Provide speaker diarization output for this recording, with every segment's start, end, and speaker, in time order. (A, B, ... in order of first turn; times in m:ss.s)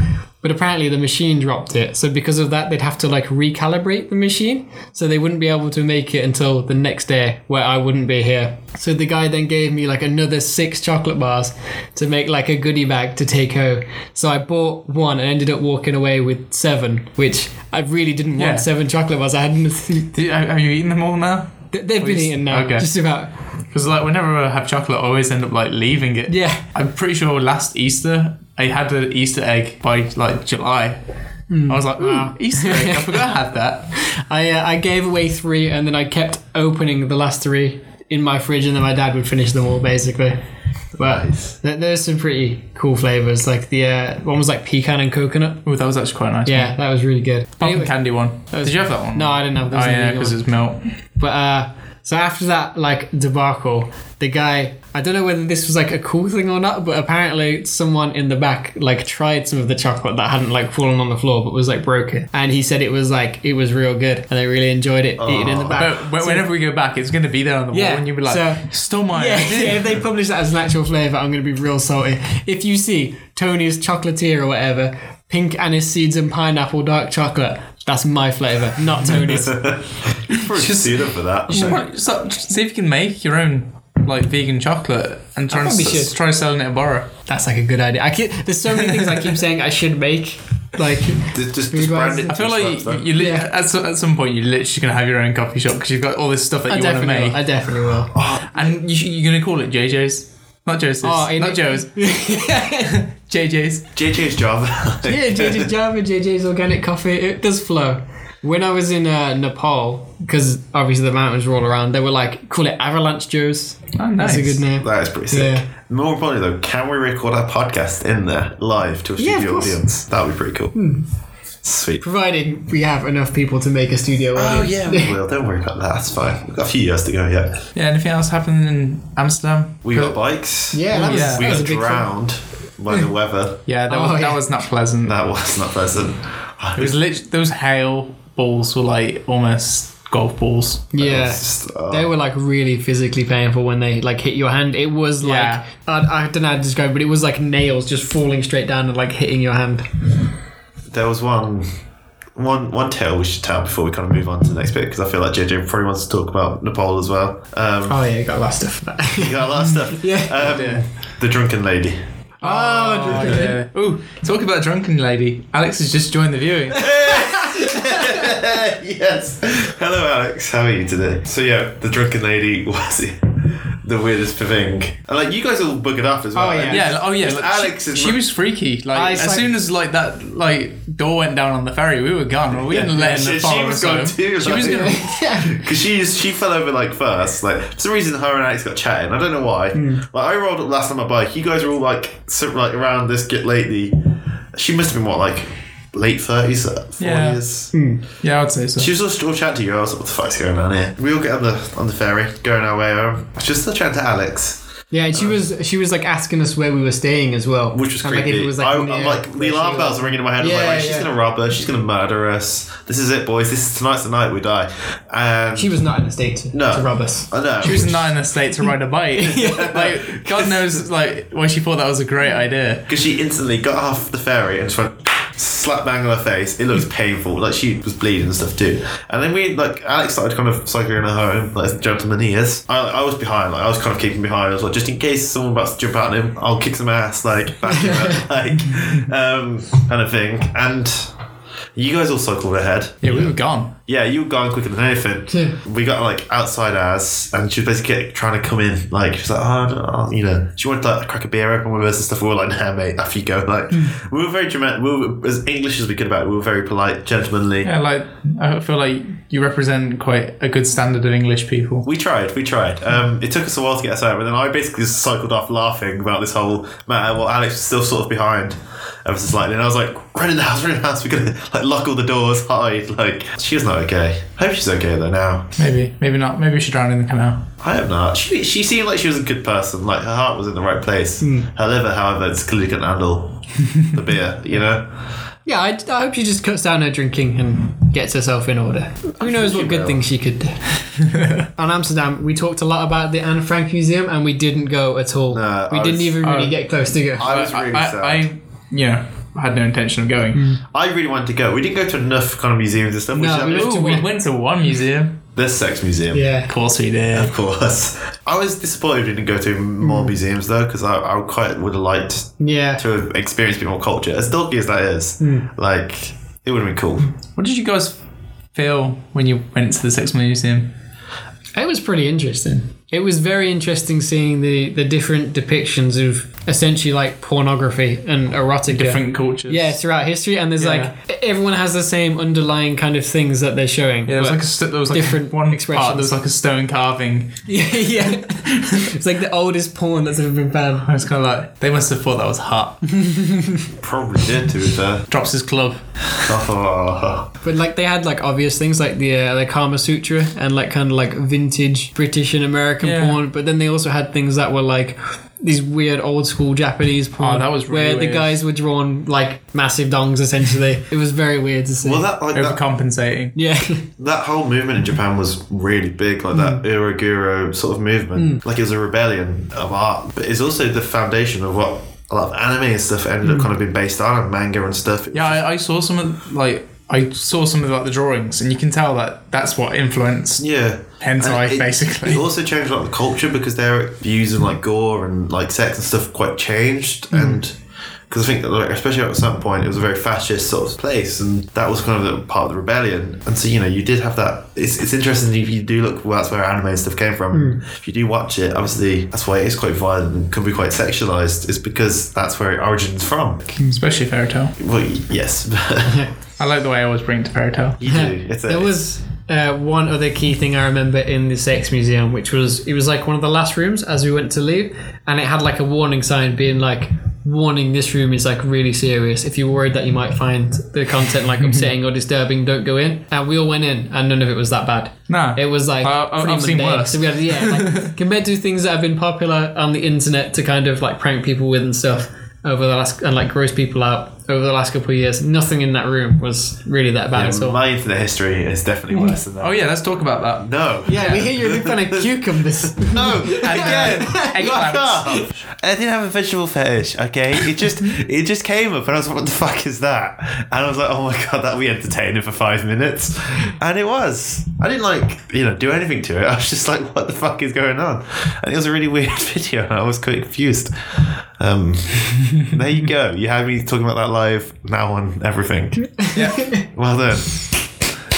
0:00.4-0:20.1 A
0:18.4-0:18.7 B
0:20.1-0:22.9 B
0:21.7-0:23.3 A
0:23.7-0:31.0 B
0:26.3-0:26.6 A
0:31.5-0:33.2 A
0:31.7-0:33.9 B
0:33.9-0:40.4 A
0:41.0-0:45.6 A
0:41.0-0:41.5 C
0:45.6-0:46.8 B
0:46.4-0:47.9 A
0:47.6-0:50.8 B
0:48.5-0:50.4 A
0:51.2-1:06.4 A
1:05.2-1:05.8 C
1:05.7-1:10.0 B
1:07.7-1:19.6 A
1:19.3-1:21.8 C
1:20.4-1:27.1 B
1:25.5-1:26.1 A
1:27.3-1:32.3 A
1:28.9-1:29.3 B
1:31.3-1:33.1 C
1:32.3-1:37.4 B
1:33.1-1:33.5 A
1:36.7-1:38.1 A
1:38.1-1:38.8 C
1:38.5-1:42.0 B
1:41.0-1:43.0 A
1:42.8-1:43.9 B
1:43.9-1:45.7 C
1:45.0-1:55.7 A
1:54.0-1:54.6 B
1:54.8-2:00.7 C
1:59.2-1:59.8 A
2:00.7-2:01.0 A
2:01.6-2:02.0 C
2:02.0-2:05.1 A
2:04.3-2:07.6 C
2:07.7-2:10.2 B
2:09.8-2:13.6 C
2:10.7-2:12.1 A
2:10.9-2:11.6 B
2:13.7-2:15.2 B
2:13.9-2:14.4 A
2:15.0-2:17.0 C
2:16.8-2:20.9 B
2:20.9-2:29.9 A
2:21.0-2:22.1 C
2:25.2-2:25.6 B
2:30.9-2:31.6 C
2:32.4-2:38.0 C
2:37.9-2:40.8 A
2:39.1-2:42.0 C
2:40.4-2:40.8 B
2:42.4-2:47.0 B
2:42.4-2:43.6 A
2:46.7-2:58.2 C
2:46.8-2:48.3 A
2:56.3-2:56.8 A
2:56.7-3:05.0 B
2:58.9-2:59.5 A
3:02.6-3:14.0 C
3:04.6-3:05.6 A
3:09.7-3:10.0 A
3:14.5-3:17.7 C
3:17.0-3:17.4 B
3:17.7-3:18.0 A
3:18.2-3:18.9 B
3:18.8-3:25.3 C
3:24.9-3:31.1 A
3:27.7-3:35.7 C
3:35.6-3:37.3 A
3:36.5-3:38.1 C
3:37.6-3:42.9 B
3:39.2-3:39.9 A
3:39.4-3:40.5 C
3:42.9-4:01.1 C
4:01.7-4:03.3 C
4:03.0-4:03.7 B
4:03.9-4:17.7 C
4:05.3-4:05.6 A
4:17.6-4:21.8 B
4:21.8-4:35.5 C
4:35.6-4:37.5 B
4:37.6-4:44.9 C
4:41.2-4:41.5 A
4:45.4-4:50.6 A
4:49.2-4:50.0 C
4:51.0-4:51.4 B
4:51.6-4:57.3 A
4:55.3-4:56.2 C
4:56.2-4:56.6 B
4:57.2-4:58.3 C
4:57.2-5:00.5 B
5:00.3-5:00.6 A
5:00.7-5:03.8 C
5:03.1-5:04.1 A
5:03.5-5:05.2 B
5:05.3-5:06.3 C
5:06.1-5:06.5 A
5:06.5-5:07.3 B
5:07.1-5:17.1 C
5:09.8-5:10.1 A
5:12.4-5:12.8 A
5:15.2-5:15.5 A
5:17.3-5:18.0 B
5:18.5-5:20.7 B
5:21.6-5:36.2 A
5:28.7-5:29.8 B
5:30.6-5:30.9 B
5:34.0-5:38.9 B
5:37.5-5:40.9 A
5:40.8-5:43.0 B
5:42.9-5:43.7 A
5:43.7-5:45.1 C
5:45.1-5:46.3 B
5:46.2-5:47.3 C
5:47.4-6:02.0 A
5:52.8-5:53.2 B
5:57.2-5:58.4 B
6:01.8-6:02.6 C
6:02.3-6:03.4 B
6:03.3-6:03.9 A
6:04.0-6:15.4 C
6:06.3-6:06.6 A
6:08.2-6:08.4 A
6:13.2-6:13.5 A
6:15.1-6:20.4 B
6:20.4-6:27.6 C
6:21.0-6:22.2 B
6:27.1-6:27.4 A
6:28.1-6:43.6 C
6:37.3-6:37.6 A
6:43.7-6:44.6 B
6:44.6-6:46.0 C
6:46.4-6:47.8 B
6:47.8-6:48.7 C
6:47.8-7:17.6 A
7:05.1-7:07.9 B
7:17.1-7:19.6 C
7:19.4-7:21.2 B
7:20.4-7:47.7 C
7:20.8-7:24.4 A
7:23.3-7:25.3 B
7:46.0-7:46.6 A
7:46.1-7:46.5 B